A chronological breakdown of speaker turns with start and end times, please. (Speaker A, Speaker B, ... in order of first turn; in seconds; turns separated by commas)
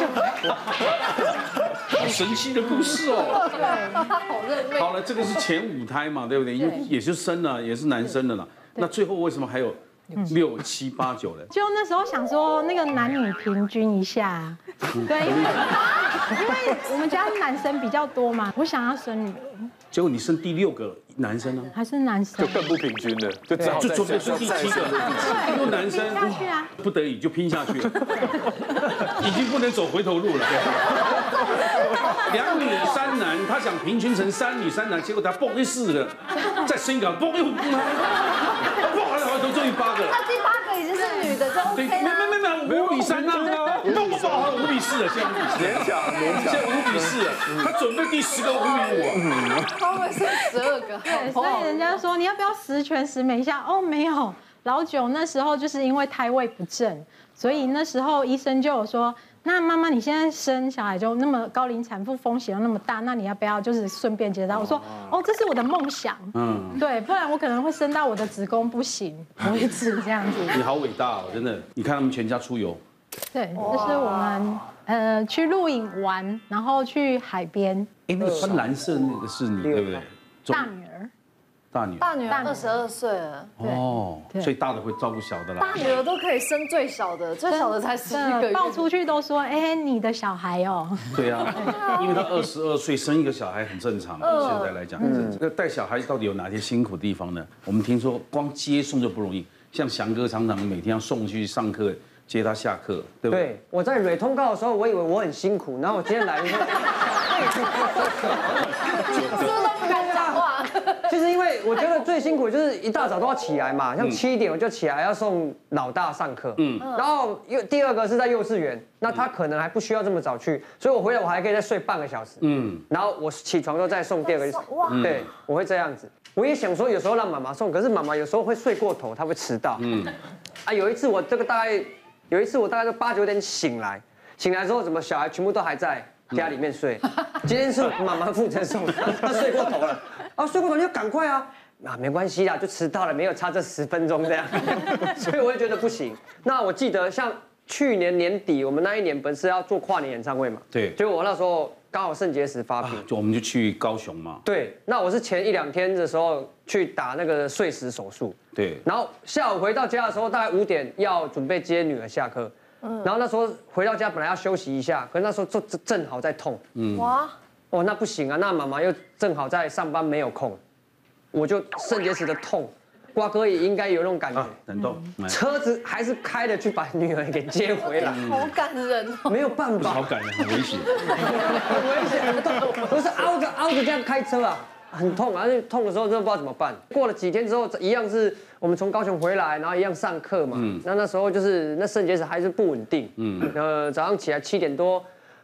Speaker A: 1.9-3.5, Speaker B: 3.3-5.0, Speaker C: 3.4-4.1, Speaker A: 4.7-11.5, Speaker C: 11.5-19.7, Speaker A: 14.9-15.8, Speaker A: 19.9-21.7, Speaker C: 21.7-22.7, Speaker D: 22.4-25.8, Speaker A: 23.6-40.2, Speaker C: 25.1-26.7, Speaker B: 40.1-42.5, Speaker A: 41.7-49.3, Speaker D: 42.6-44.6, Speaker D: 45.5-47.7, Speaker B: 48.5-51.9, Speaker D: 49.3-49.6, Speaker C: 51.0-70.6, Speaker A: 66.3-66.8, Speaker A: 70.5-72.8, Speaker C: 73.3-77.9, Speaker B: 73.6-74.5, Speaker A: 78.1-80.7, Speaker E: 78.2-78.6, Speaker E: 79.6-80.0, Speaker C: 80.5-81.1, Speaker A: 81.7-82.1, Speaker B: 82.0-83.5, Speaker C: 82.3-82.7, Speaker A: 83.6-85.9, Speaker C: 83.6-84.5, Speaker B: 85.6-88.8, Speaker C: 87.5-92.0, Speaker A: 91.1-103.5, Speaker B: 94.2-94.8, Speaker E: 95.0-95.4, Speaker E: 103.3-129.9, Speaker B: 108.9-111.0, Speaker A: 109.1-109.5, Speaker A: 116.6-116.9, Speaker B: 116.8-117.1, Speaker A: 122.4-122.8, Speaker B: 124.2-125.2, Speaker A: 124.9-125.3, Speaker A: 129.8-130.1, Speaker E: 130.7-153.1, Speaker A: 152.8-154.4, Speaker E: 154.5-166.6, Speaker A: 158.6-158.8, Speaker B: 162.8-163.1, Speaker A: 166.8-167.1, Speaker B: 166.9-167.3, Speaker E: 167.7-170.6, Speaker E: 171.3-174.6, Speaker A: 174.3-175.4, Speaker E: 175.3-178.2, Speaker B: 177.9-179.3, Speaker A: 178.0-178.5, Speaker E: 179.3-180.1, Speaker A: 179.8-181.2, Speaker B: 181.1-181.7, Speaker E: 181.2-195.1, Speaker A: 190.5-190.8, Speaker A: 193.2-193.5